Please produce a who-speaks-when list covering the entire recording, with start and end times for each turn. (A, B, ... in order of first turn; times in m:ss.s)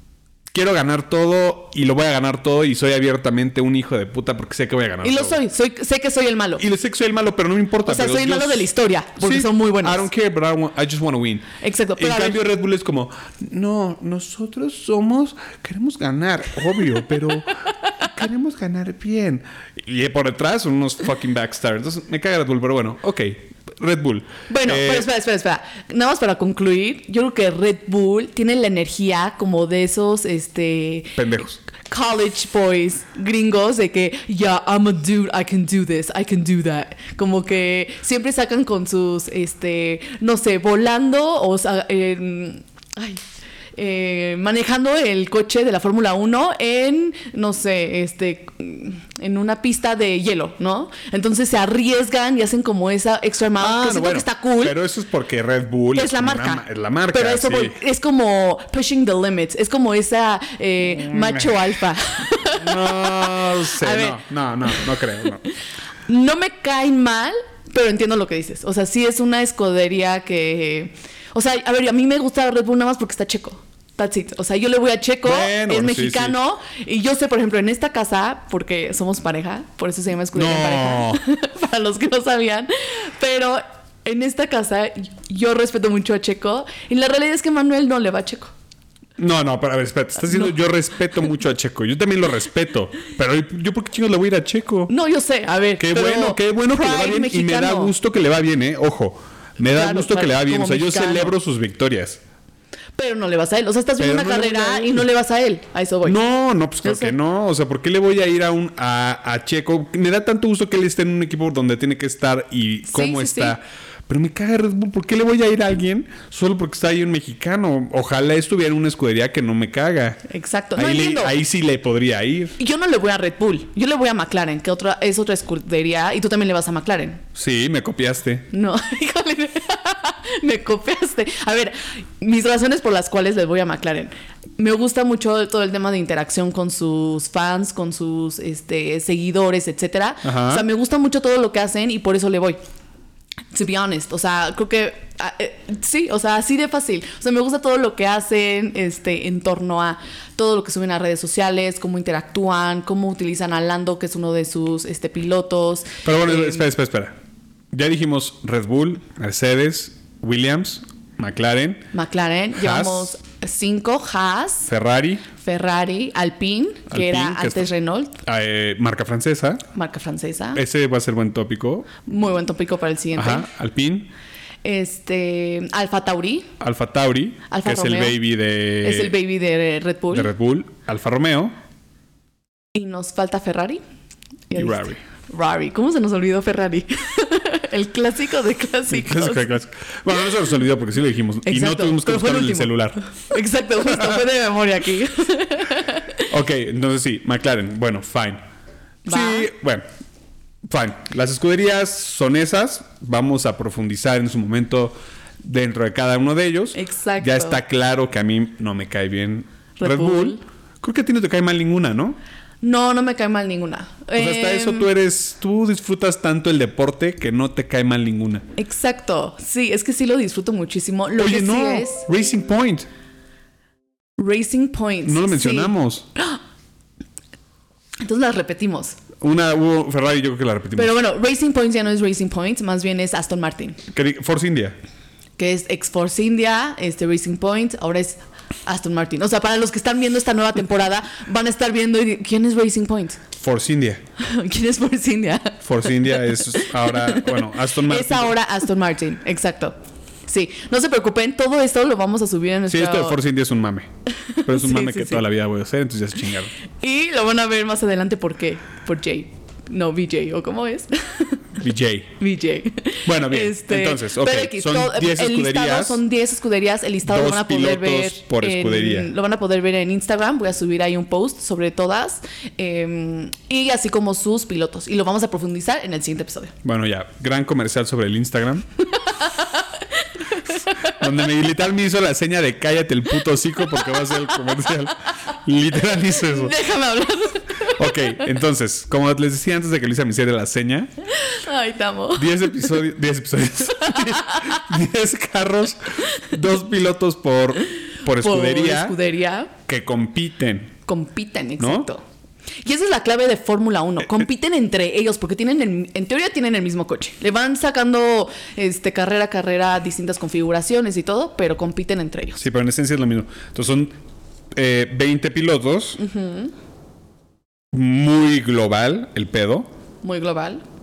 0:00.5-0:05.4 A
0:05.0-0:06.6 B
0:06.6-0:25.1 A
0:07.9-0:10.1 B
0:11.6-0:12.4 B
0:24.5-0:43.2 B
0:31.2-0:31.6 A
0:43.8-0:54.8 B
0:53.6-0:57.8 A
0:56.0-1:05.0 B
1:01.0-1:01.7 A
1:02.4-1:05.4 A
1:06.1-1:28.5 B
1:15.2-1:16.4 A
1:20.4-1:21.2 A
1:29.2-1:34.9 A
1:34.9-1:37.9 B
1:35.8-1:42.2 A
1:39.6-1:41.3 B
1:43.0-1:46.2 B
1:44.0-1:45.1 A
1:46.0-2:00.2 A
1:46.8-1:47.2 B
1:52.9-1:53.6 B
2:00.3-2:01.4 B
2:00.8-2:02.6 A
2:02.6-2:07.2 B
2:07.4-2:08.5 A
2:08.5-2:22.6 B
2:20.2-2:20.6 A
2:23.5-2:36.7 B
2:36.0-2:37.1 A
2:37.7-2:41.9 A
2:41.9-2:44.7 B
2:42.6-2:43.1 A
2:44.7-2:45.3 A
2:45.4-2:48.2 B
2:46.9-2:47.7 A
2:48.2-2:49.6 A
2:49.7-2:50.6 B
2:50.6-2:51.9 A
2:52.1-2:53.5 B
2:53.2-2:54.1 A
2:54.6-2:56.5 B
2:56.6-2:59.2 A
2:57.5-2:58.2 B
2:58.8-3:00.3 B
3:00.1-3:01.5 A
3:02.8-3:03.8 B
3:04.5-3:09.5 B
3:04.6-3:05.0 A
3:08.9-3:13.0 A
3:11.5-3:16.2 B
3:16.3-3:18.4 A
3:19.1-3:19.5 B
3:19.1-3:19.8 A
3:20.6-3:32.2 A
3:26.7-3:27.6 B
3:29.8-3:30.4 B
3:32.6-3:34.9 B
3:34.2-3:38.5 A
3:38.6-3:42.0 B
3:41.2-3:42.9 A
3:44.2-3:46.4 B
3:45.0-3:46.1 A
3:48.0-3:49.0 B
3:49.2-3:51.0 A
3:50.8-3:53.8 B
3:53.9-3:54.8 A
3:55.4-4:03.2 B
4:03.4-4:04.0 A
4:04.2-4:09.8 B
4:05.6-4:08.3 A
4:10.3-4:13.2 B
4:12.7-4:13.9 A
4:14.2-4:15.2 B
4:14.4-4:16.5 A
4:16.8-4:21.5 B
4:21.6-4:22.2 A
4:22.2-4:36.5 B
4:23.0-4:26.0 A
4:27.0-4:29.1 A
4:36.6-4:38.7 A
4:39.1-4:39.6 B
4:40.4-4:40.9 B
4:40.8-4:46.6 A
4:46.2-4:48.2 B
4:47.6-4:50.9 A
4:51.2-4:52.5 B
4:52.2-4:59.0 A
4:53.8-4:54.6 B
4:58.1-4:59.5 B
4:59.7-5:00.7 A
5:00.9-5:02.0 B
5:01.6-5:01.9 A
5:02.6-5:12.4 B
5:12.4-5:13.9 A
5:14.5-5:16.0 A
5:16.0-5:16.5 B
5:17.7-5:19.7 A
5:20.0-5:20.6 B